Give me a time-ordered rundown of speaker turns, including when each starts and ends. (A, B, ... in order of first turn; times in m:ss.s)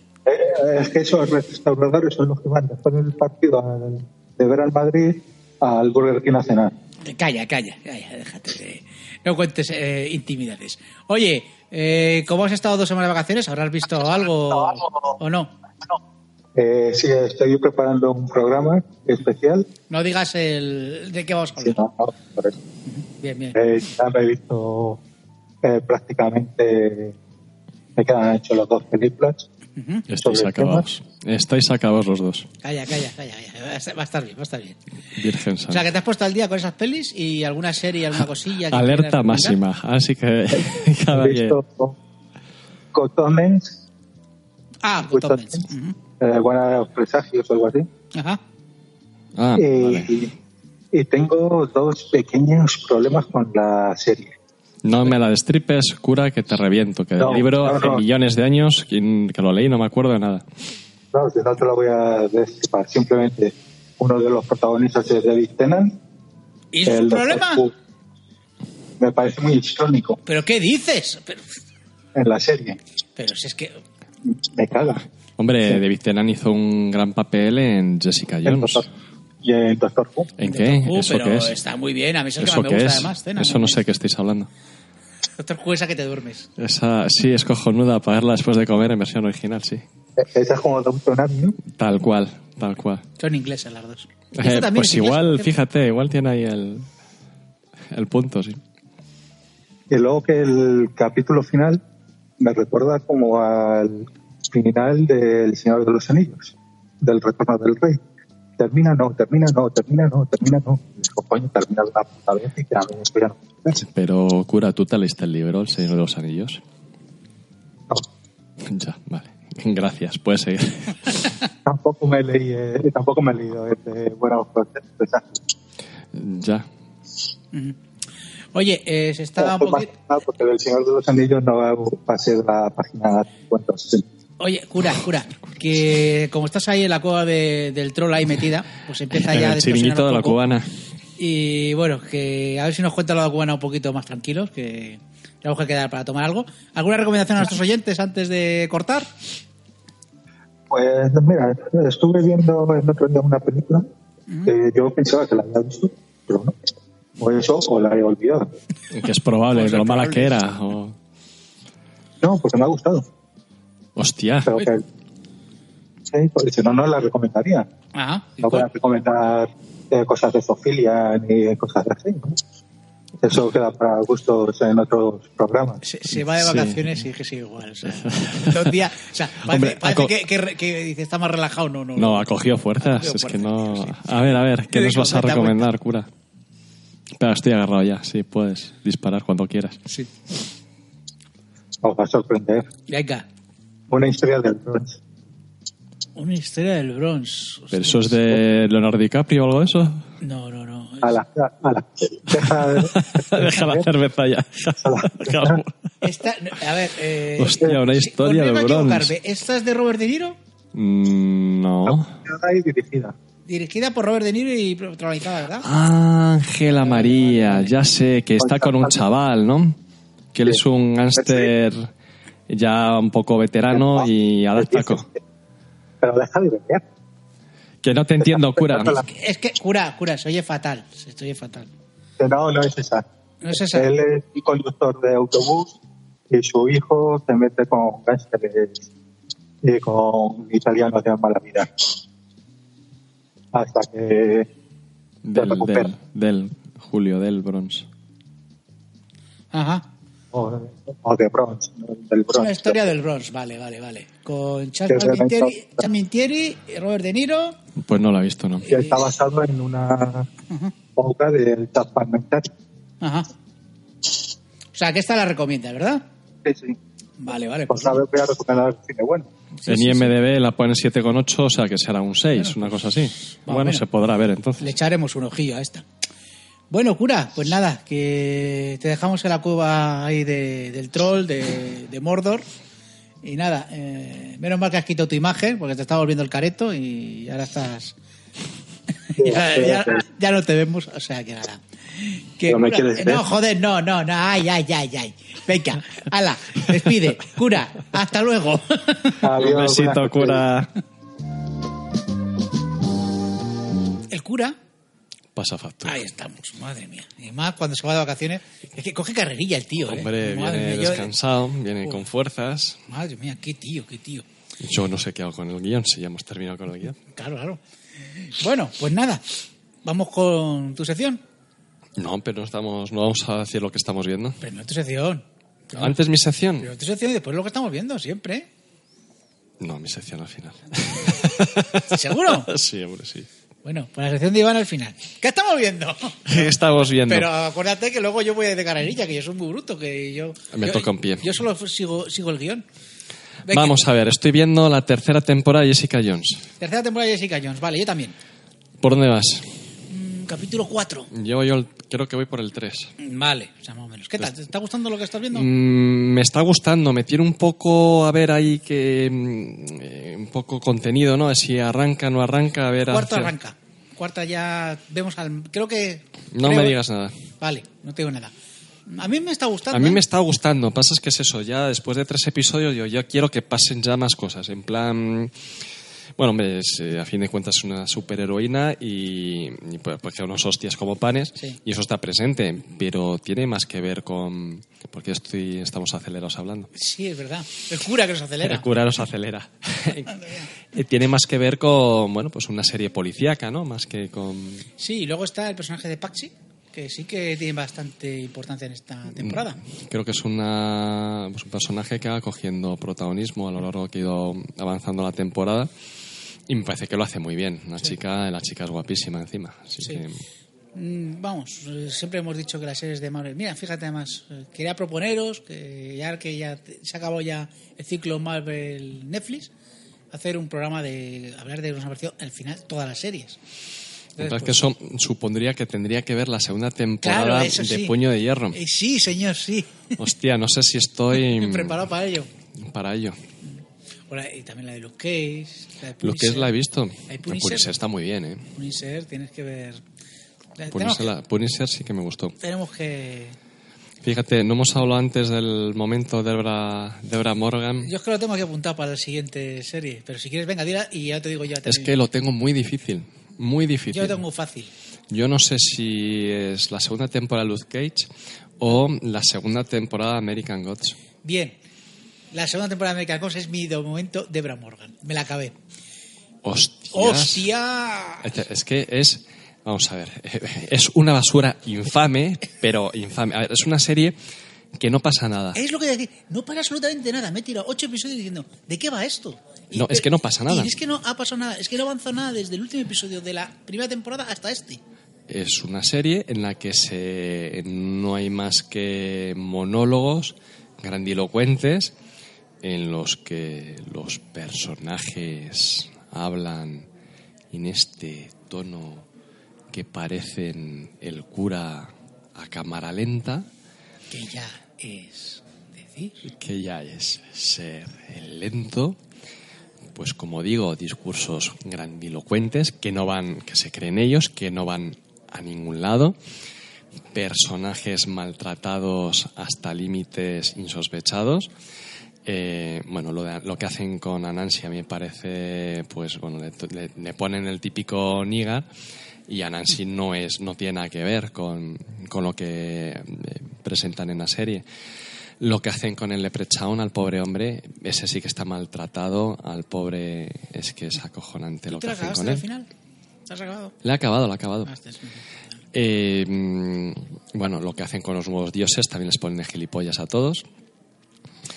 0:00.3-0:06.7 A
0:07.0-0:15.5 B
0:14.5-0:15.2 A
0:16.6-0:19.7 A
0:19.9-0:21.8 B
0:21.6-0:22.6 A
0:22.9-0:23.6 B
0:23.6-0:25.0 A
0:25.6-0:27.2 A
0:28.0-0:29.5 A
0:29.8-0:30.0 B
0:30.1-0:32.5 C
0:30.2-0:30.8 A
0:32.6-0:34.8 B
0:35.2-0:35.9 C
0:35.7-0:39.6 B
0:38.7-0:41.6 C
0:41.1-0:42.0 A
0:42.9-0:43.8 A
0:44.8-0:46.0 B
0:45.1-0:45.6 A
0:46.2-0:47.9 A
0:48.2-0:48.4 B
0:49.4-0:50.2 C
0:49.6-0:50.3 A
0:50.9-0:54.4 A
0:54.8-1:00.4 C
0:57.2-0:58.0 A
1:01.1-1:06.0 A
1:06.7-1:07.6 B
1:06.8-1:07.7 A
1:09.0-1:10.2 A
1:10.3-1:11.5 B
1:12.2-1:12.8 A
1:13.2-1:13.8 B
1:14.3-1:15.0 A
1:15.4-1:18.9 C
1:18.4-1:18.9 A
1:19.4-1:20.4 A
1:20.4-1:21.6 C
1:20.4-1:23.8 B
1:22.4-1:24.5 C
1:25.4-1:26.5 B
1:26.6-1:29.8 C
1:30.2-1:31.6 A
1:31.7-1:33.0 C
1:33.2-1:35.5 B
1:34.3-1:36.9 C
1:37.9-1:38.6 C
1:39.9-1:41.8 A
1:42.4-1:48.0 A
1:48.6-1:53.8 A
1:53.8-1:56.6 C
1:58.6-2:01.2 C
2:01.6-2:05.4 A
2:06.1-2:06.7 C
2:08.5-2:09.9 B
2:09.4-2:14.0 A
2:14.4-2:20.4 B
2:19.1-2:20.7 C
2:21.2-2:29.1 B
2:30.7-2:33.9 A
2:34.4-2:36.6 A
2:37.2-2:38.5 A
2:38.9-2:41.0 C
2:39.5-2:40.3 B
2:42.2-2:43.1 A
2:44.0-2:44.6 C
2:44.4-2:44.8 A
2:46.1-2:47.7 A
2:47.9-2:48.6 B
2:48.4-2:52.4 A
2:53.2-2:55.8 A
2:55.8-3:05.7 B
2:56.3-2:57.0 C
2:58.0-2:58.7 C
2:59.5-3:00.1 C
3:02.0-3:06.1 C
3:07.2-3:09.8 C
3:11.8-3:12.7 A
3:12.9-3:13.2 B
3:13.9-3:15.0 A
3:16.2-3:18.2 B
3:17.7-3:20.0 C
3:20.2-3:21.2 B
3:21.0-3:23.9 A
3:22.4-3:25.7 C
3:24.8-3:25.6 A
3:26.0-3:30.4 B
3:27.4-3:29.1 C
3:30.7-3:32.1 C
3:31.9-3:33.2 A
3:33.5-3:35.7 B
3:35.6-3:39.8 C
3:37.1-3:37.5 A
3:38.4-3:38.9 A
3:40.3-3:41.9 C
3:41.2-3:41.5 A
3:42.5-3:45.1 C
3:43.7-3:45.1 A
3:46.0-3:46.8 A
3:47.8-3:49.0 C
3:48.3-3:49.0 A
3:49.0-3:51.7 B
3:52.2-3:55.7 A
3:53.4-3:53.9 B
3:56.3-3:58.8 A
3:59.6-4:01.9 A
4:03.5-4:04.5 A
4:05.2-4:07.9 C
4:05.4-4:05.9 A
4:09.5-4:09.9 B
4:10.3-4:12.9 A
4:12.4-4:17.6 B
4:14.9-4:15.8 A
4:17.8-4:18.7 C
4:18.7-4:20.3 A
4:18.7-4:19.0 B
4:21.0-4:22.5 A
4:23.0-4:23.3 B
4:24.7-4:26.0 B
4:26.4-4:26.8 A
4:27.2-4:28.0 B
4:27.7-4:29.3 A
4:29.6-4:30.1 B
4:29.7-4:34.7 C
4:33.4-4:33.8 B
4:34.6-4:35.8 B
4:36.7-4:42.4 B
4:43.2-4:48.0 B
4:49.1-4:59.2 B
4:49.2-4:50.0 A
4:52.4-4:53.2 A
4:59.2-5:00.4 A
4:59.4-5:00.7 C
5:04.1-5:04.6 B
5:05.4-5:06.0 C
5:05.8-5:11.1 B
5:09.8-5:12.8 C
5:12.9-5:14.2 B
5:14.6-5:17.0 C
5:17.1-5:17.6 B
5:18.2-5:19.2 B
5:19.8-5:21.2 B
5:22.0-5:24.4 C
5:24.4-5:26.0 B
5:25.7-5:26.7 C
5:26.6-5:28.5 B
5:29.6-5:33.3 C
5:31.9-5:32.5 B
5:33.6-5:42.6 B
5:36.3-5:37.3 C
5:40.5-5:41.3 C
5:43.4-5:43.8 B
5:43.5-5:46.4 C
5:46.6-5:48.2 B
5:48.8-5:49.5 C
5:49.9-5:51.1 B
5:51.1-5:52.9 C
5:53.0-5:55.5 B
5:55.3-6:03.3 C
6:02.9-6:06.8 B
6:06.3-6:07.2 C
6:07.4-6:08.3 B
6:08.9-6:10.0 B
6:09.7-6:15.4 C
6:16.2-6:26.7 C
6:26.7-6:28.7 B
6:28.4-6:34.7 C
6:30.1-6:30.5 B
6:34.8-6:39.6 B
6:39.2-6:45.7 C
6:46.5-6:50.2 C
6:50.7-6:59.5 B
7:00.1-7:03.4 B
7:04.2-7:04.6 B
7:04.2-7:08.6 C
7:07.0-7:08.0 B
7:08.5-7:10.0 B
7:10.0-7:11.9 C
7:11.1-7:12.3 B
7:12.6-7:13.2 C
7:13.4-7:16.5 B
7:16.0-7:18.5 C
7:17.1-7:17.7 B
7:18.6-7:19.8 B
7:20.6-7:21.1 B
7:20.7-7:22.4 C
7:22.4-7:23.4 B
7:24.0-7:27.9 C
7:27.8-7:32.0 B
7:31.6-7:34.2 C
7:33.9-7:34.7 B
7:35.1-7:38.1 C
7:38.6-7:41.0 C
7:41.2-7:41.6 B
7:42.3-7:45.6 B
7:46.4-7:47.5 C
7:46.9-7:48.3 B
7:48.2-7:54.2 C
7:54.8-7:55.6 C
7:55.6-8:04.8 B
7:59.7-8:00.7 C
8:05.3-8:11.9 C
8:12.6-8:16.9 C
8:17.5-8:19.1 C
8:19.7-8:23.5 C
8:24.1-8:26.3 B
8:26.2-8:29.0 C
8:30.0-8:36.2 C
8:37.1-8:41.5 C
8:42.2-8:48.7 C
8:49.3-8:54.6 C
8:55.4-9:02.4 C
9:01.7-9:02.7 B
9:03.3-9:03.7 B
9:03.8-9:04.7 C
9:04.6-9:05.2 B
9:05.7-9:10.4 C